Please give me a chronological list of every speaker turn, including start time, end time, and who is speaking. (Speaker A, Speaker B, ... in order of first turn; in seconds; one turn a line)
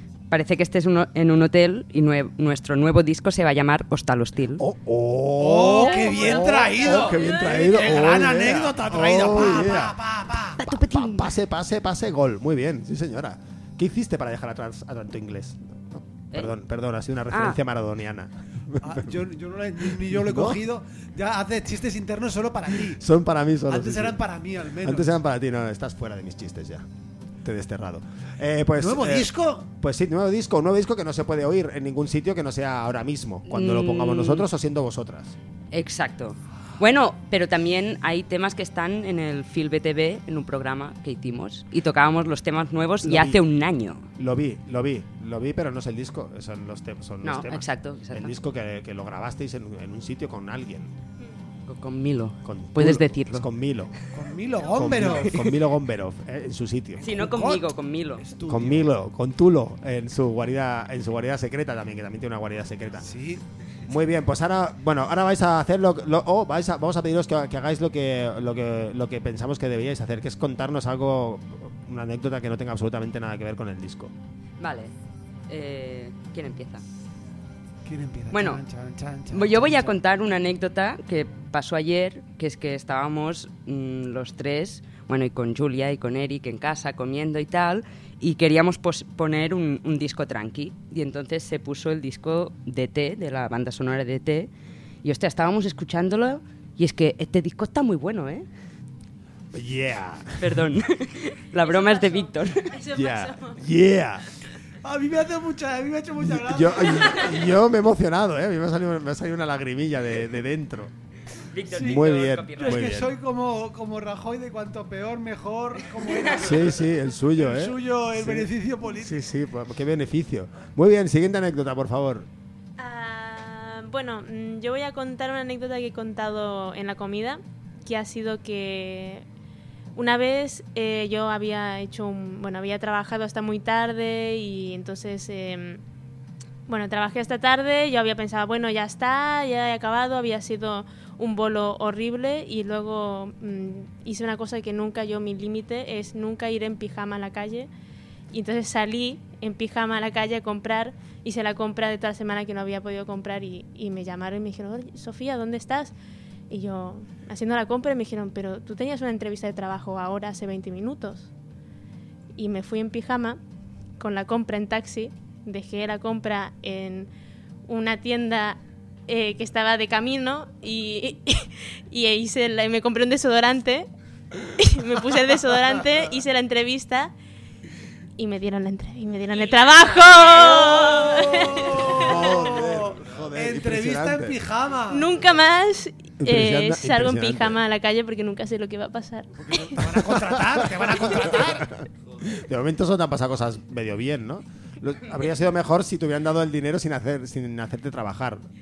Speaker A: 0.3-4.6
Speaker B: 4.6-10.0
Speaker C: 5.4-10.6
Speaker A: 7.2-7.7
Speaker A: 10.6-11.3
Speaker B: 10.6-19.2
Speaker A: 17.3-17.6
Speaker C: 18.8-23.0
Speaker B: 19.8-20.6
Speaker B: 22.8-24.2
Speaker C: 23.7-25.2
Speaker B: 24.8-26.9
Speaker B: 27.4-35.4
Speaker C: 28.8-29.7
Speaker A: 33.5-34.5
Speaker A: 35.7-44.0
Speaker B: 43.0-43.4
Speaker B: 44.2-50.9
Speaker A: 47.2-48.4
Speaker A: 51.7-53.5
Speaker B: 52.4-53.9
Speaker C: 54.1-55.4
Speaker B: 54.6-57.1
Speaker A: 55.2-55.6
Speaker A: 57.0-58.2
Speaker C: 57.1-58.9
Speaker B: 58.5-63.1
Speaker C: 63.0-63.4
Speaker B: 63.9-74.1
Speaker A: 74.6-74.9
Speaker A: 75.5-76.8
Speaker C: 77.8-80.0
Speaker A: 78.3-78.6
Speaker A: 79.3-94.5
Speaker A: 95.0-98.5
Speaker B: 99.5-100.7
Speaker A: 100.4-102.8
Speaker D: 101.6-103.7
Speaker B: 102.9-104.3
Speaker C: 104.8-107.5
Speaker B: 106.2-110.9
Speaker A: 111.5-112.9
Speaker B: 111.7-113.1
Speaker C: 111.7-119.2
Speaker B: 116.3-122.3
Speaker D: 122.8-129.2
Speaker D: 130.0-135.8
Speaker D: 136.7-147.7
Speaker D: 148.3-155.9
Speaker D: 156.5-161.3
Speaker D: 162.4-163.4
Speaker D: 164.0-167.1
Speaker D: 167.7-173.9
Speaker D: 174.4-177.1
Speaker D: 178.2-182.5
Speaker A: 179.3-181.2
Speaker C: 180.9-185.1
Speaker B: 181.3-184.4
Speaker D: 184.9-189.9
Speaker B: 186.2-187.6
Speaker C: 189.3-191.7
Speaker B: 190.5-198.4